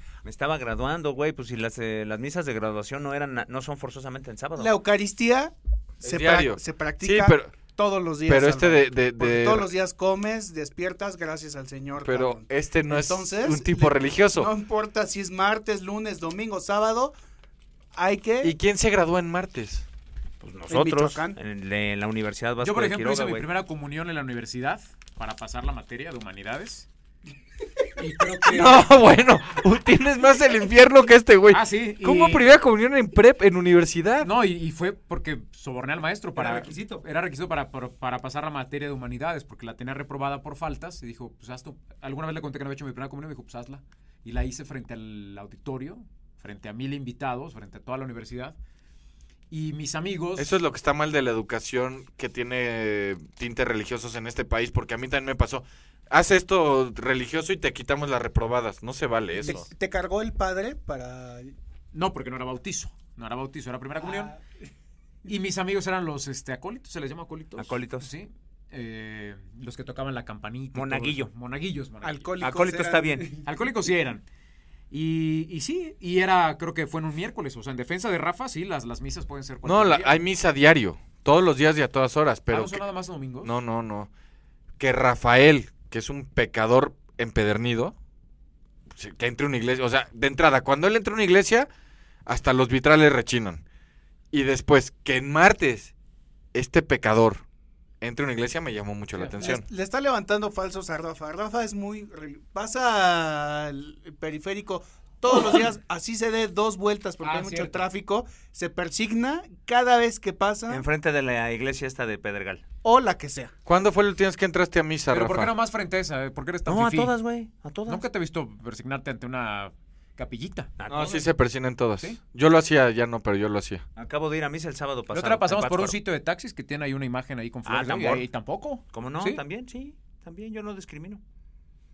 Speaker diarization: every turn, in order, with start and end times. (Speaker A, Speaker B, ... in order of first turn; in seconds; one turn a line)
Speaker A: 0.2-4.7
Speaker B: 4.6-17.1
Speaker C: 6.0-7.5
Speaker C: 8.3-9.7
Speaker C: 12.0-14.5
Speaker B: 17.9-18.6
Speaker C: 18.4-19.9
Speaker A: 20.4-23.5
Speaker B: 20.7-21.4
Speaker D: 22.6-26.9
Speaker D: 28.0-29.0
Speaker C: 28.5-34.3
Speaker D: 31.5-32.5
Speaker D: 34.2-48.6
Speaker A: 36.4-37.0
Speaker D: 49.5-50.5
Speaker C: 50.4-59.7
Speaker B: 59.4-61.5
Speaker D: 61.9-64.3
Speaker B: 64.1-64.4
Speaker D: 65.3-72.3
Speaker A: 67.6-68.1
Speaker A: 70.7-71.3
Speaker B: 72.0-73.4
Speaker A: 72.4-73.3
Speaker D: 73.4-74.2
Speaker D: 74.9-80.2
Speaker C: 79.7-82.8
Speaker D: 82.5-83.5
Speaker C: 83.4-84.1
Speaker C: 84.8-88.0
Speaker C: 88.9-91.7
Speaker C: 92.3-93.6
Speaker C: 94.3-95.9
Speaker C: 96.5-97.4
Speaker C: 98.0-99.7
Speaker D: 99.2-99.4
Speaker B: 99.4-110.8
Speaker D: 107.2-107.8
Speaker A: 110.7-112.7
Speaker B: 112.8-113.5
Speaker C: 113.7-115.5
Speaker D: 115.1-117.1
Speaker A: 116.7-118.0
Speaker D: 117.9-120.7
Speaker A: 120.8-121.3
Speaker C: 120.9-123.8
Speaker A: 124.0-126.0
Speaker D: 125.1-129.4
Speaker A: 127.7-128.3
Speaker A: 128.9-131.2